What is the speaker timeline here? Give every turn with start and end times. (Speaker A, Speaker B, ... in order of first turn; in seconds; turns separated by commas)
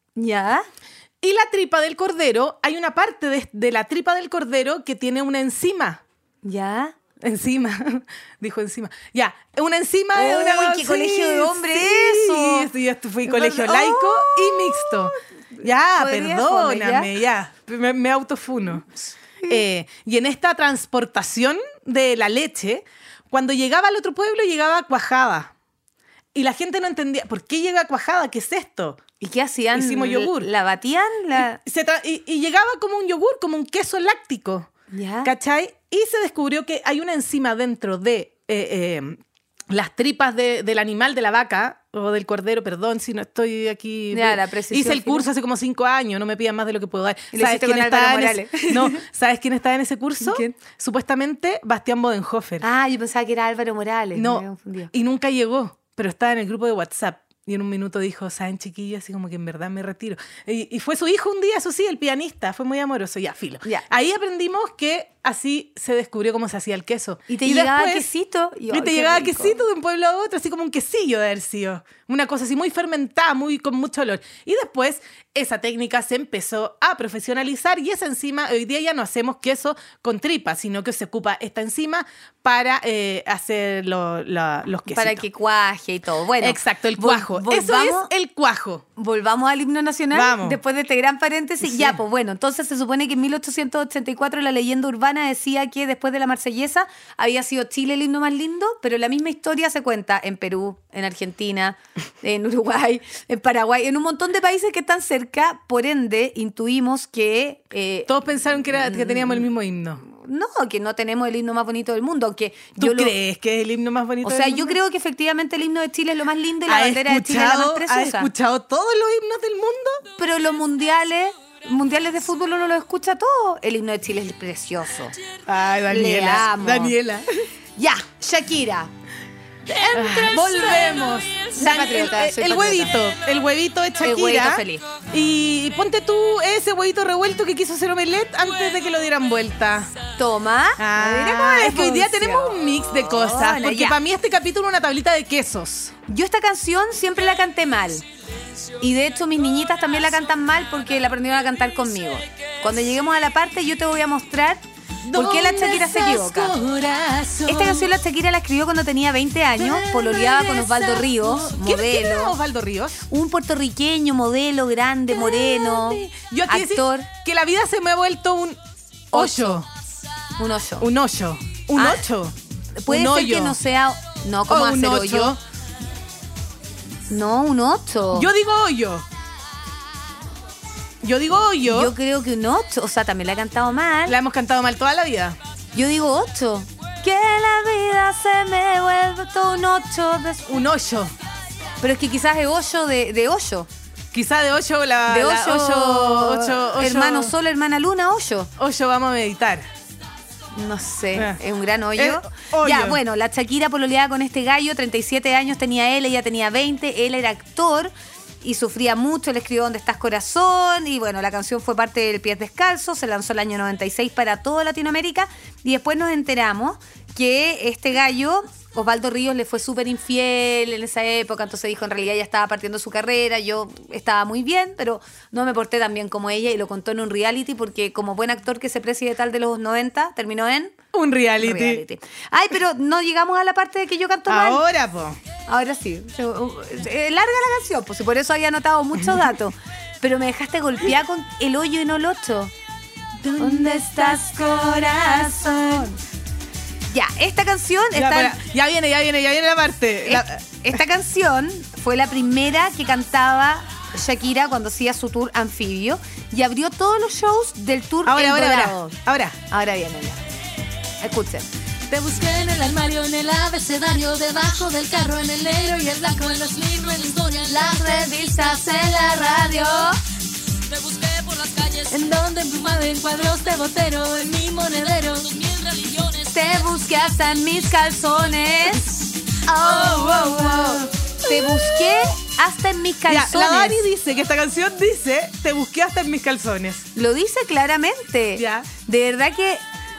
Speaker A: 0.1-0.7, Speaker B: 1.2-6.0, Speaker A: 6.4-6.9, Speaker B: 7.2-18.8, Speaker A: 10.1-12.7, Speaker A: 13.2-17.1, Speaker A: 19.0-19.6, Speaker B: 19.5-25.5, Speaker B: 26.3-29.0, Speaker A: 29.2-31.6, Speaker B: 29.7-30.5, Speaker B: 31.4-34.7, Speaker A: 34.9-35.3, Speaker B: 35.2-52.6, Speaker A: 44.1-45.3, Speaker A: 47.3-49.0, Speaker A: 50.2-50.5, Speaker A: 52.6-54.9, Speaker B: 54.1-68.1, Speaker A: 67.3-69.6, Speaker B: 68.7-85.2, Speaker A: 84.9-88.1, Speaker B: 86.4-88.8, Speaker A: 89.0-109.5, Speaker B: 90.1-90.6, Speaker B: 91.6-92.0, Speaker B: 108.1-110.0, Speaker A: 110.0-113.1, Speaker B: 112.8-114.8, Speaker A: 114.2-118.3, Speaker B: 116.7-120.0, Speaker A: 120.2-125.2, Speaker B: 125.5-127.5, Speaker A: 125.9-127.0, Speaker A: 127.8-128.9, Speaker A: 129.7-132.9, Speaker B: 129.9-139.9, Speaker A: 134.0-134.8, Speaker A: 140.2-144.0, Speaker B: 140.8-145.9, Speaker A: 146.1-148.0, Speaker A: 148.8-156.6, Speaker B: 155.0-157.9, Speaker A: 157.4-162.3, Speaker B: 159.6-163.1, Speaker A: 163.1-167.1, Speaker B: 165.1-168.6, Speaker A: 169.1-169.6, Speaker B: 169.1-169.7, Speaker A: 170.4-170.9, Speaker B: 170.8-173.6, Speaker A: 171.7-172.0, Speaker A: 172.8-175.3, Speaker B: 174.5-175.4, Speaker A: 177.1-178.3, Speaker B: 178.1-179.1, Speaker B: 181.0-181.9, Speaker A: 181.6-184.2, Speaker B: 184.1-185.4, Speaker A: 185.7-190.5, Speaker B: 190.5-191.1, Speaker A: 191.8-193.7, Speaker B: 194.1-197.3, Speaker A: 195.1-198.5, Speaker B: 198.6-199.7, Speaker A: 200.5-230.8, Speaker B: 201.1-201.4, Speaker B: 201.9-203.0, Speaker B: 230.9-231.8, Speaker A: 231.4-234.6, Speaker B: 234.3-235.2, Speaker A: 235.5-242.5, Speaker B: 243.2-245.8, Speaker A: 243.4-246.0, Speaker A: 246.9-248.3, Speaker B: 247.9-250.4, Speaker A: 250.0-258.9, Speaker B: 258.0-259.4, Speaker A: 259.5-260.2, Speaker A: 261.0-261.5, Speaker C: 261.9-269.9, Speaker A: 267.5-270.0, Speaker C: 270.6-276.6, Speaker A: 276.3-278.9, Speaker B: 279.4-282.1, Speaker A: 279.5-283.8, Speaker B: 283.1-286.9, Speaker A: 286.9-289.6, Speaker B: 288.4-288.7